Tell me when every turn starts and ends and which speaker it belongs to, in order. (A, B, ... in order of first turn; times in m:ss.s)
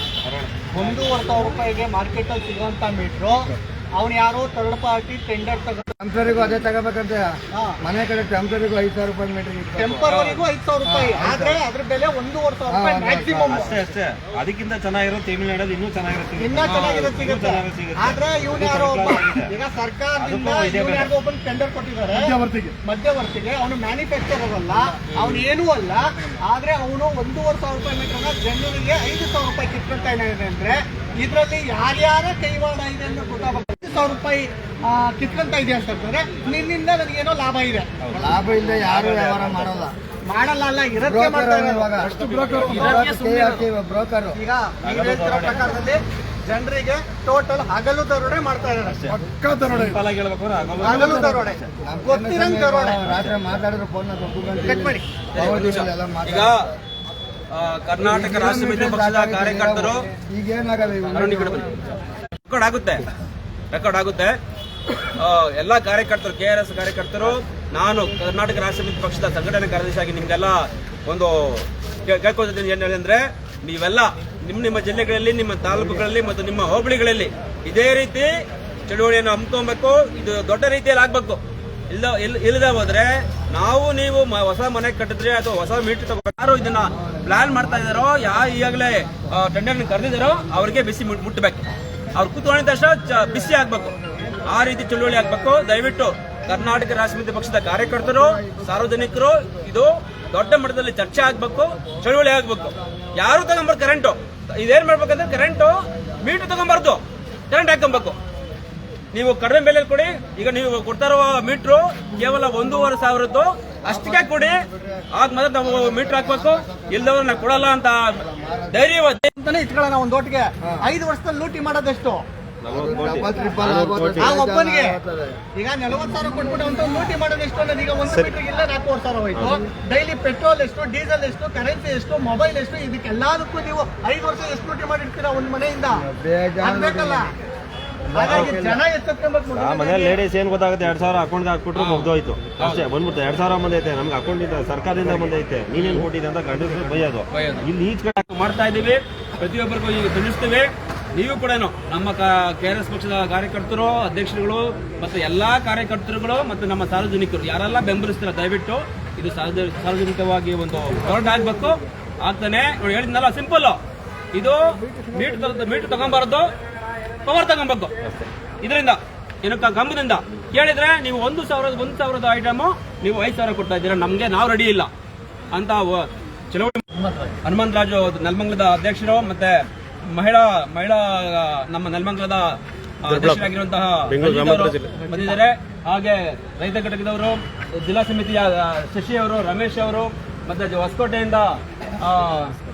0:00.2-0:01.0 A
0:00.7-0:05.9 B
0:06.0-0:10.1 C
0:07.5-0:07.8 B
0:09.8-0:13.8 B
0:10.1-0:10.4 D
0:10.8-0:11.6 C
0:12.7-0:13.7 C
0:13.5-0:19.5 A
0:16.4-0:22.3 B
0:16.6-0:17.1 D
0:20.2-0:21.1 A
0:22.1-0:22.8 E
0:22.8-0:37.9 B
0:25.1-0:25.4 D
0:38.0-0:39.9 A
0:38.1-0:39.9 C
0:40.3-0:42.0 B
0:41.0-0:42.2 C
0:42.0-0:43.1 E
0:42.6-0:43.8 D
0:42.8-0:44.4 C
0:44.3-0:49.1 B
0:44.8-0:45.6 A
0:48.8-0:51.7 A
0:49.1-0:50.0 E
0:50.8-0:53.0 B
0:50.8-0:56.7 C
0:53.0-0:53.4 A
0:54.6-0:55.0 B
0:55.3-0:56.7 D
0:57.5-1:00.0 D
0:58.0-1:01.7 C
1:01.1-1:03.1 D
1:03.7-1:04.4 D
1:05.2-1:18.3 D
1:18.9-1:48.2 D
1:49.1-1:58.2 D
1:53.9-1:55.1 C
1:55.6-1:58.9 C
1:58.7-1:59.3 D
1:59.4-2:02.2 B
2:02.6-2:04.4 A
2:02.7-2:05.4 C
2:04.2-2:05.0 B
2:05.6-2:16.1 B
2:08.1-2:08.3 A
2:09.3-2:09.6 A
2:15.9-2:17.3 C
2:16.6-2:17.3 B
2:18.1-2:18.8 C
2:18.1-2:20.2 B
2:18.2-2:18.7 A
2:19.5-2:28.3 A
2:21.7-2:22.9 D
2:25.8-2:26.1 D
2:27.3-2:43.8 D
2:44.3-2:46.5 D
2:47.2-2:47.9 D
2:48.6-2:54.9 D
2:55.5-2:56.8 D
2:57.4-3:12.6 D
3:03.1-3:03.5 A
3:04.1-3:05.1 A